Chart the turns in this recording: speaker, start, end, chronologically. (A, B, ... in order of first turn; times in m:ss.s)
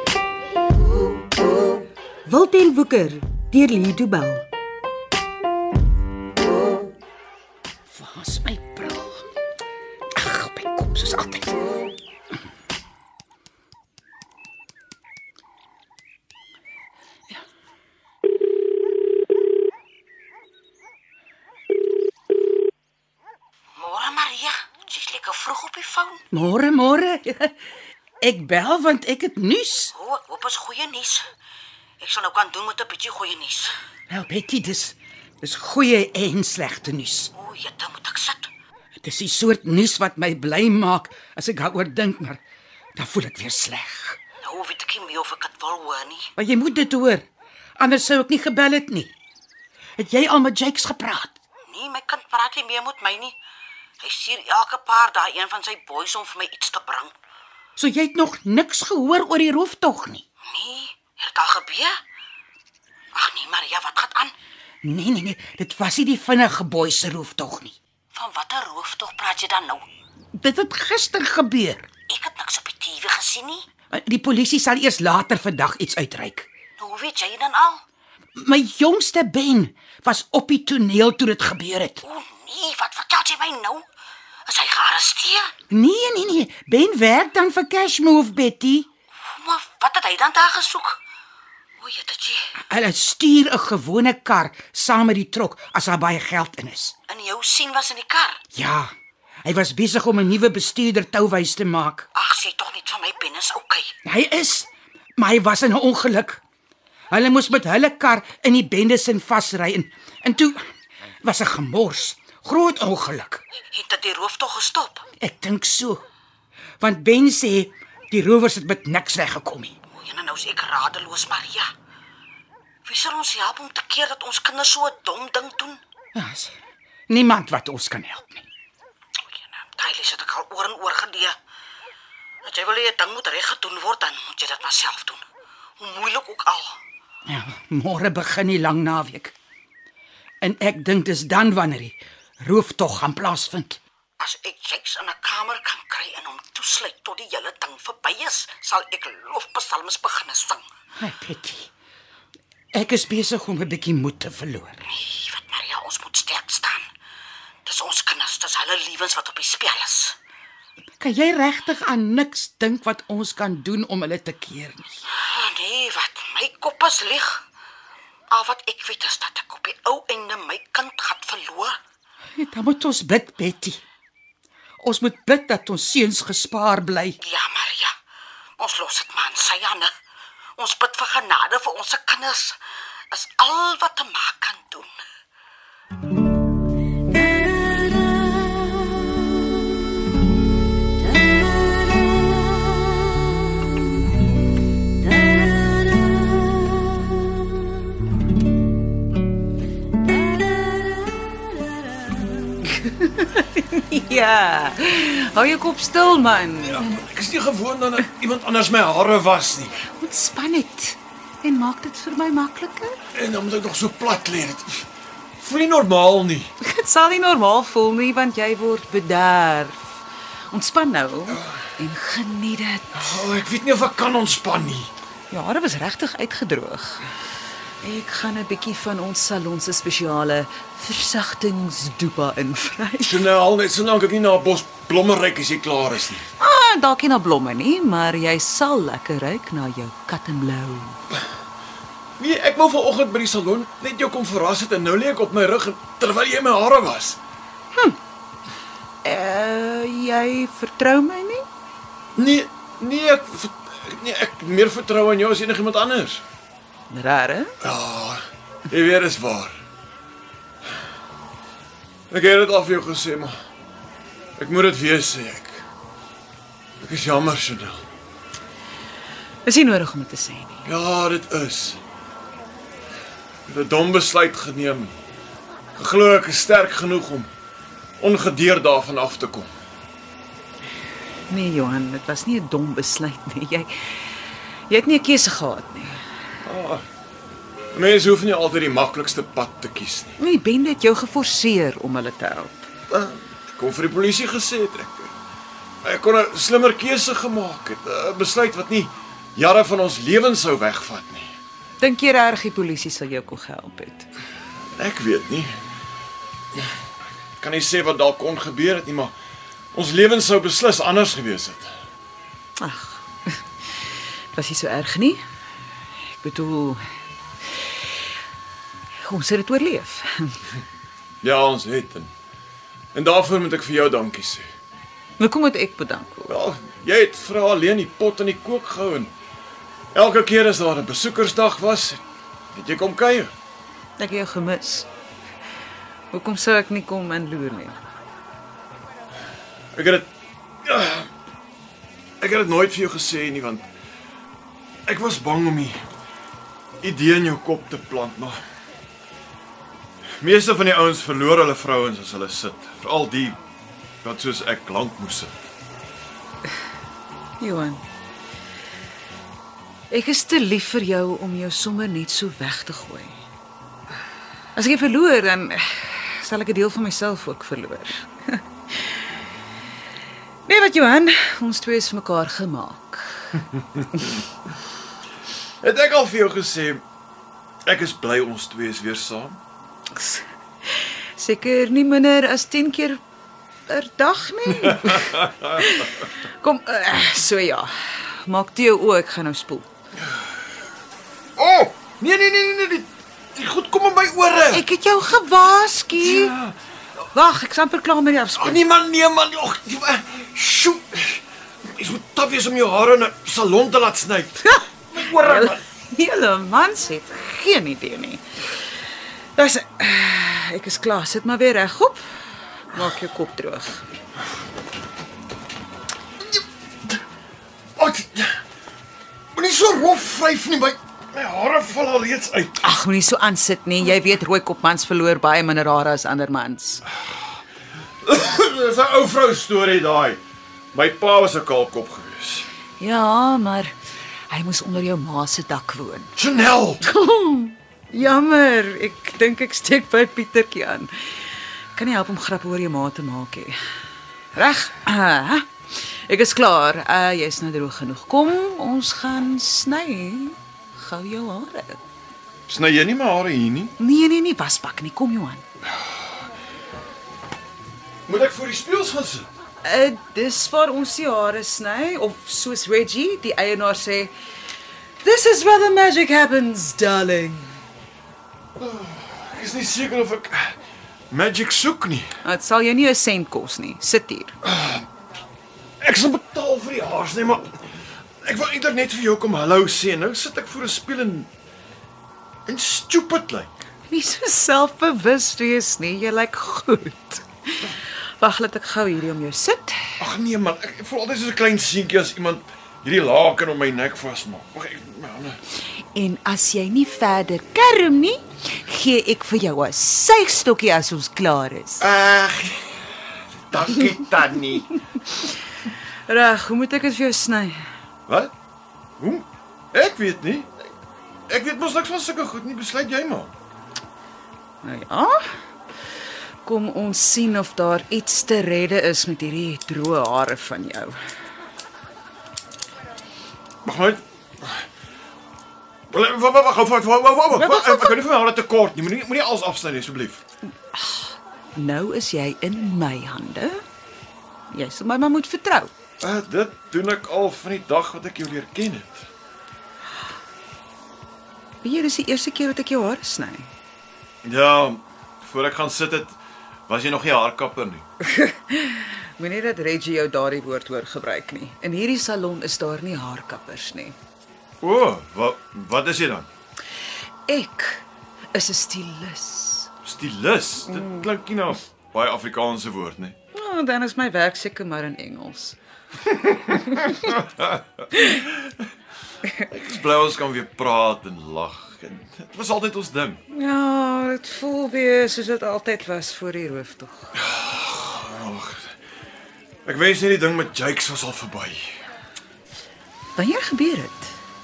0:02.3-0:04.5 A
0:07.9-0:09.2 B
0:10.2-0:11.6 B
0:23.8-0:26.2 C
0:26.3-0:27.5 B
0:28.2-0:29.9 B
0:30.0-0:31.3 C
0:32.0-0:33.7 C
0:34.1-0:37.3 B
0:37.3-0:38.5 C
0:39.0-0:42.4 B
0:43.0-0:44.2 B
0:44.4-0:46.3 C
0:46.4-0:47.2 B
0:47.8-0:49.1 B
0:50.0-0:51.4 B
0:51.7-0:53.4 C
0:54.0-0:57.1 C
0:57.8-1:00.2 B
1:00.5-1:02.0 C
1:03.1-1:04.3 C
1:04.8-1:07.8 B
1:08.1-1:09.9 C
1:10.4-1:11.9 B
1:12.1-1:13.6 C
1:13.9-1:16.5 B
1:16.8-1:17.8 C
1:18.4-1:22.0 B
1:22.0-1:23.9 C
1:24.5-1:25.5 C
1:25.7-1:28.9 B
1:29.3-1:31.0 C
1:31.8-1:32.5 C
1:32.6-1:37.0 B
1:37.1-1:38.4 C
1:38.5-1:38.9 B
1:39.4-1:42.1 B
1:42.2-1:43.9 C
1:44.0-1:46.4 B
1:47.1-1:50.6 B
1:51.2-1:53.4 B
1:53.7-1:55.0 C
1:55.2-1:56.0 B
1:56.8-1:59.8 B
1:59.9-2:01.7 C
2:02.8-2:05.8 C
2:06.2-2:06.6 B
2:07.1-2:08.5 B
2:09.7-2:11.4 C
2:12.4-2:15.2 C
2:15.8-2:16.8 C
2:17.3-2:19.4 B
2:20.4-2:23.8 B
2:24.2-2:30.7 C
2:31.0-2:31.7 B
2:32.7-2:34.8 B
2:34.9-2:36.9 C
2:37.6-2:40.2 C
2:41.0-2:45.0 B
2:45.2-2:47.4 C
2:48.3-2:51.8 C
2:52.4-2:53.8 B
2:54.8-2:57.2 B
2:57.2-2:57.9 C
2:58.6-2:59.9 C
3:00.6-3:02.6 C
3:03.1-3:04.9 C
3:22.7-3:26.9 D
3:26.6-3:29.8 E
3:29.9-3:33.0 D
3:33.1-3:34.9 E
3:35.4-3:36.5 E
3:36.6-3:40.0 D
3:40.5-3:43.0 D
3:42.9-3:44.9 E
3:45.3-3:47.1 D
3:47.8-3:53.2 D
3:53.0-3:56.3 E
3:56.4-4:01.0 D
4:02.2-4:07.2 E
4:09.0-4:11.4 D
4:12.2-4:16.2 E
4:16.9-4:17.5 D
4:17.6-4:19.6 E
4:22.1-4:23.3 E
4:24.4-4:25.6 E
4:26.8-4:27.8 E
4:29.4-4:30.6 D
4:30.6-4:31.8 E
4:33.5-4:35.0 E
4:35.8-4:37.3 E
4:38.0-4:39.5 E
4:41.3-4:44.2 D
4:44.7-4:46.0 D
4:46.4-4:46.9 E
4:47.7-4:50.2 E
4:50.2-4:52.7 D
4:52.9-4:55.1 E
4:55.8-5:01.4 E
5:01.8-5:04.1 D
5:04.7-5:05.6 E
5:07.4-5:09.1 E
5:09.7-5:11.7 E
5:12.6-5:13.4 D
5:14.3-5:15.2 D
5:16.1-5:16.8 D
5:19.1-5:20.4 D
5:21.2-5:22.1 E
5:23.0-5:24.5 E
5:25.2-5:26.4 D
5:26.3-5:29.1 E
5:29.9-5:32.0 E
5:32.5-5:33.3 E
5:34.0-5:34.9 D
5:36.1-5:37.8 D
5:39.7-5:40.1 E
5:40.6-5:41.1 E
5:42.2-5:43.7 E
5:44.9-5:45.8 E
5:46.8-5:48.4 E
5:50.2-5:53.4 E
5:54.0-5:55.5 E
5:57.4-5:57.8 D
5:59.9-6:03.2 D
6:04.6-6:08.4 D
6:10.5-6:13.3 D
6:15.6-6:16.8 E
6:17.6-6:19.4 E
6:19.9-6:23.0 D
6:23.7-6:29.7 D
6:24.7-6:25.3 E
6:31.4-6:34.7 E
6:34.5-6:36.3 D
6:36.0-6:36.6 E
6:37.1-6:38.6 D
6:38.4-6:45.6 E
6:44.4-6:48.2 D
6:49.4-6:53.8 D
6:57.8-6:58.4 E
6:59.3-7:02.7 E
7:02.6-7:06.8 D
7:08.0-7:10.2 E
7:10.7-7:12.5 E
7:12.8-7:13.8 D
7:14.3-7:16.1 D
7:16.2-7:16.8 E
7:16.8-7:23.6 D
7:24.4-7:31.8 D
7:32.5-7:33.8 E
7:33.8-7:35.4 D
7:38.1-7:39.3 E
7:39.6-7:44.1 D
7:45.0-7:47.6 D
7:48.6-7:50.5 E
7:51.1-7:52.2 E
7:52.2-7:54.3 D
7:54.4-7:54.9 E
7:55.8-7:57.6 E
7:58.2-8:01.3 E
8:02.5-8:03.5 E
8:03.9-8:09.9 D
8:10.0-8:15.4 E
8:15.9-8:21.8 D
8:21.8-8:22.9 E
8:23.5-8:24.8 E
8:26.1-8:27.6 D
8:28.1-8:28.3 E
8:29.0-8:30.5 E
8:31.3-8:33.3 E
8:34.6-8:35.3 D
8:36.4-8:41.0 D
8:43.6-8:44.7 E
8:45.9-8:50.2 E
8:47.3-8:48.0 D
8:50.7-8:53.6 D
8:54.5-8:55.7 D
8:56.0-8:59.1 E
9:01.6-9:03.5 D
9:04.2-9:07.9 E
9:08.0-9:14.0 D
9:14.6-9:16.3 E
9:17.3-9:19.7 D
9:19.8-9:23.2 E
9:20.7-9:21.0 D
9:23.3-9:25.6 D
9:26.5-9:27.2 D
9:26.9-9:27.6 E
9:29.5-9:33.2 E
9:33.3-9:37.1 D
9:37.2-9:38.8 E
9:39.6-9:41.8 E
9:43.2-9:44.2 D